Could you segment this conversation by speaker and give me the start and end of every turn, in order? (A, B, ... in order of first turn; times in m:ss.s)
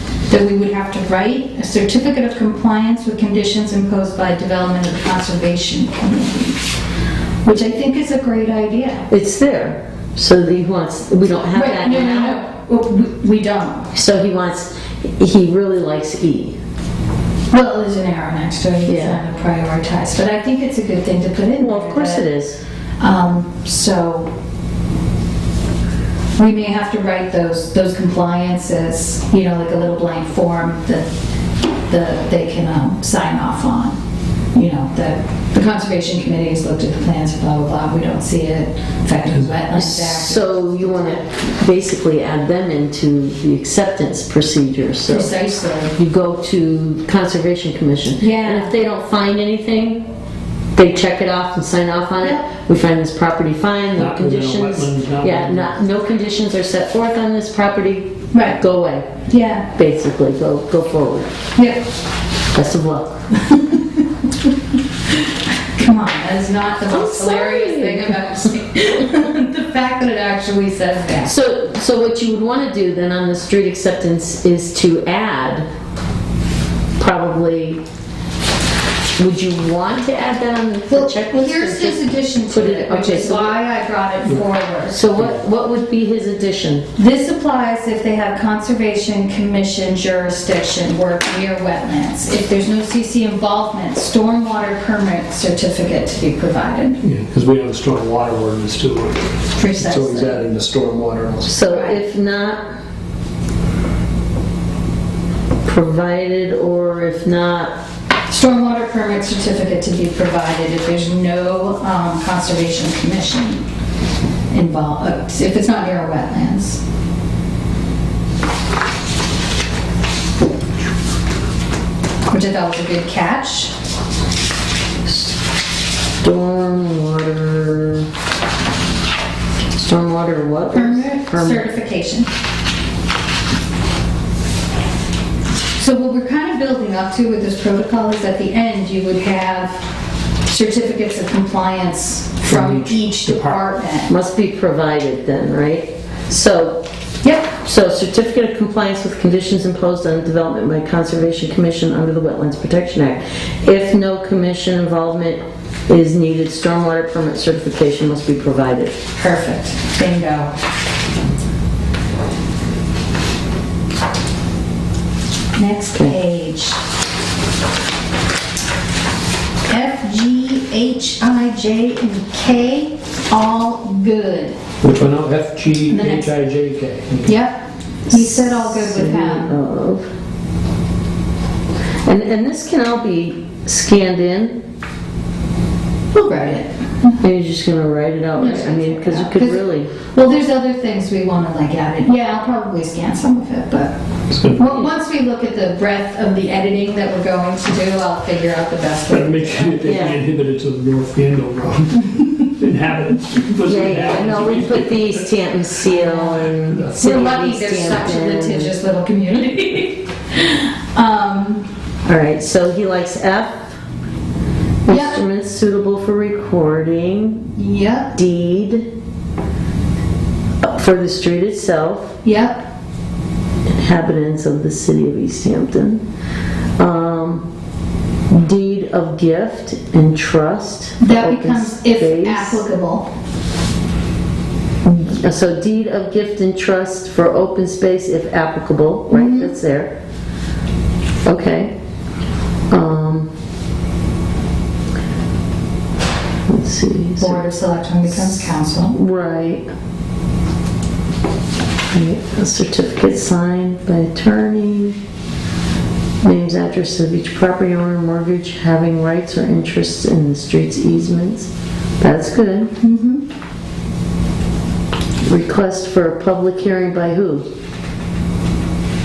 0:00.3-0:06.6 A
0:07.4-0:09.1 A
0:09.1-0:12.4 B
0:11.5-0:13.9 A
0:13.9-0:16.6 B
0:17.5-0:22.2 A
0:18.9-0:19.2 B
0:21.6-0:22.6 B
0:23.0-0:24.3 A
0:26.4-0:31.1 A
0:31.9-0:34.0 A
0:34.5-0:40.6 A
0:39.7-0:45.4 B
0:45.1-0:46.0 A
0:46.0-0:50.1 B
0:48.2-0:48.7 A
0:50.8-0:59.1 B
0:54.0-0:55.8 C
0:58.3-0:58.6 A
0:59.3-0:59.7 A
0:59.8-1:01.3 B
1:01.6-1:01.8 A
1:02.5-1:03.2 B
1:03.5-1:03.8 A
1:05.6-1:11.4 A
1:06.9-1:08.4 B
1:11.2-1:15.7 B
1:17.0-1:17.8 B
1:19.2-1:23.5 B
1:20.9-1:25.1 A
1:24.9-1:26.9 B
1:27.0-1:37.0 A
1:37.0-1:41.5 C
1:39.6-1:40.5 A
1:41.4-1:42.6 B
1:41.6-1:42.0 A
1:45.6-1:47.7 B
1:48.3-1:53.6 A
1:54.5-1:56.8 A
2:02.3-2:03.7 A
2:06.2-2:08.1 B
2:09.8-2:11.7 B
2:10.7-2:12.3 A
2:15.8-2:19.8 A
2:20.5-2:24.1 A
2:22.5-2:23.6 C
2:24.1-2:26.8 B
2:27.2-2:27.5 A
2:27.5-2:39.0 B
2:39.2-2:40.5 A
2:45.6-2:46.8 A
2:49.7-2:54.6 A
2:54.8-2:57.4 C
2:55.9-2:56.4 A
2:57.2-2:59.6 A
2:58.1-3:00.1 B
3:02.0-3:04.6 B
3:06.1-3:07.2 A
3:07.2-3:09.9 B
3:08.4-3:13.9 A
3:14.3-3:14.8 C
3:14.5-3:20.1 A
3:19.1-3:25.1 C
3:19.8-3:20.2 B
3:23.6-3:28.7 B
3:26.0-3:31.7 A
3:26.6-3:27.0 C
3:32.0-3:33.7 B
3:34.8-3:37.5 B
3:34.9-3:35.2 A
3:37.6-3:38.2 A
3:38.2-3:38.9 B
3:40.6-3:42.2 B
3:42.2-3:42.7 A
3:43.7-3:46.0 B
3:46.8-3:47.5 B
3:48.3-3:52.6 B
3:51.0-3:53.1 A
3:54.8-4:00.0 B
3:59.1-3:59.6 A
4:01.2-4:01.7 B
4:02.7-4:03.3 B
4:06.5-4:07.4 B
4:07.2-4:09.0 A
4:08.1-4:09.6 B
4:11.9-4:15.0 B
4:16.2-4:22.7 B
4:22.8-4:23.2 A
4:25.2-4:27.4 B